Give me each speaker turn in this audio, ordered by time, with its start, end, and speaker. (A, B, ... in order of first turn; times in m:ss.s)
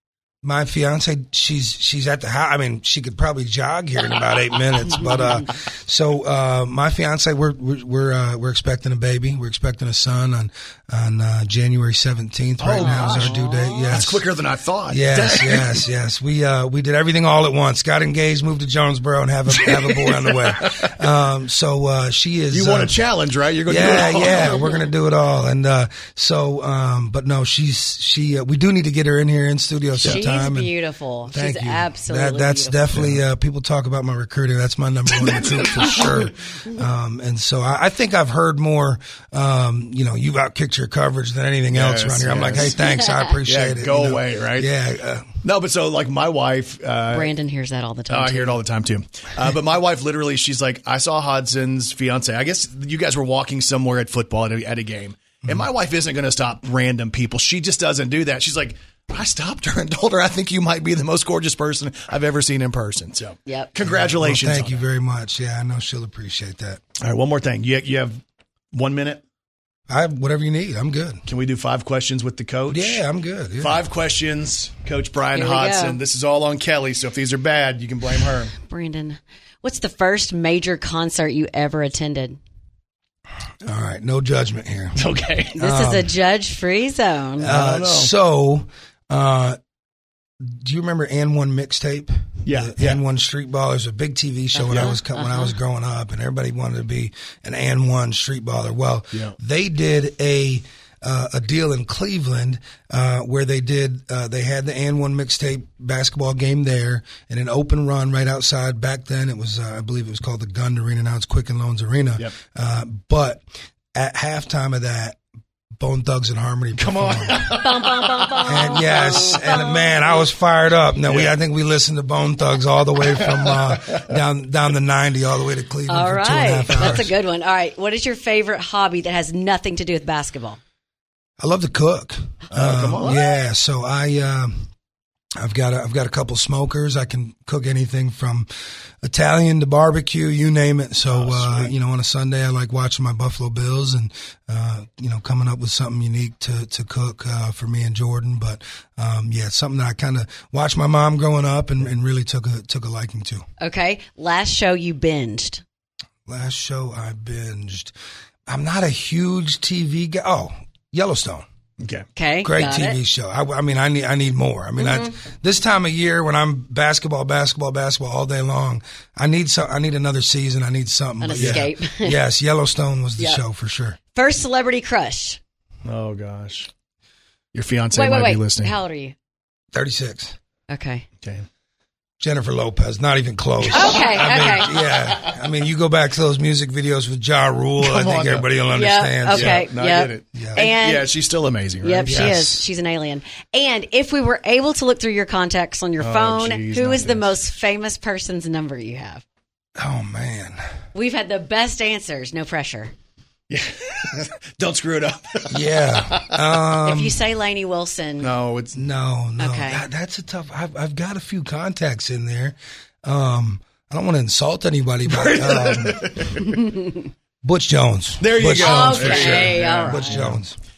0:00.4-0:14.3 A
0:12.6-0:13.4 B
0:12.8-0:14.0 C
0:13.9-0:15.8 B
0:14.9-0:23.1 A
0:19.5-0:20.9 B
0:22.5-0:24.7 B
0:23.7-0:30.7 A
0:24.1-0:24.7 C
0:30.0-0:32.8 C
0:31.3-0:45.4 A
0:32.9-0:33.2 B
0:35.2-0:36.2 B
0:41.7-0:42.8 B
0:42.8-0:43.1 C
0:43.5-0:44.7 B
0:45.4-0:47.3 B
0:47.1-0:48.6 C
0:48.1-1:04.9 B
1:03.5-1:03.7 C
1:03.8-1:06.8 A
1:07.0-1:09.2 B
1:09.9-1:11.2 A
1:11.3-1:13.1 B
1:12.7-1:13.8 A
1:13.6-1:18.5 B
1:15.3-1:16.0 C
1:18.6-1:22.4 C
1:23.6-1:25.0 A
1:25.0-1:25.6 B
1:25.6-1:26.1 A
1:25.6-1:27.5 C
1:27.4-1:28.1 B
1:27.4-1:29.6 A
1:30.5-1:55.2 A
1:32.4-1:33.0 B
1:34.6-1:35.6 C
1:34.7-1:35.0 B
1:55.8-1:57.5 A
1:56.8-1:59.4 B
1:57.5-2:00.3 C
1:58.5-2:07.1 A
2:01.0-2:01.4 B
2:03.0-2:04.2 B
2:05.9-2:10.6 C
2:06.7-2:07.0 B
2:11.4-2:14.7 A
2:12.5-2:13.2 B
2:15.4-2:18.5 A
2:19.0-2:33.5 A
2:21.1-2:21.8 B
2:33.6-2:35.6 C
2:36.3-2:37.9 A
2:38.5-2:41.5 A
2:41.8-2:42.1 B
2:42.2-2:43.0 C
2:42.4-2:54.0 A
2:44.8-2:45.2 C
2:51.2-2:52.2 C
2:51.3-2:51.7 B
2:53.2-2:53.4 C
2:54.1-2:55.4 C
2:55.8-2:56.7 B
2:57.5-2:58.8 B
2:57.9-2:59.2 C
2:59.7-3:00.4 A
3:00.7-3:01.1 C
3:01.2-3:01.5 B
3:02.2-3:09.7 A
3:03.6-3:05.2 B
3:03.7-3:05.0 C
3:07.8-3:08.5 B
3:08.7-3:11.1 C
3:09.3-3:12.6 B
3:10.3-3:10.7 A
3:11.8-3:19.2 C
3:12.1-3:12.6 A
3:16.0-3:17.3 B
3:19.8-3:20.6 A
3:20.9-3:22.9 C
3:23.5-3:26.7 B
3:25.5-3:27.2 A
3:26.8-3:28.3 C
3:28.2-3:28.9 B
3:28.8-3:36.4 A
3:29.4-3:29.8 C
3:35.1-3:36.6 B
3:37.4-3:40.6 A
3:38.2-3:40.4 B
3:38.6-3:40.2 C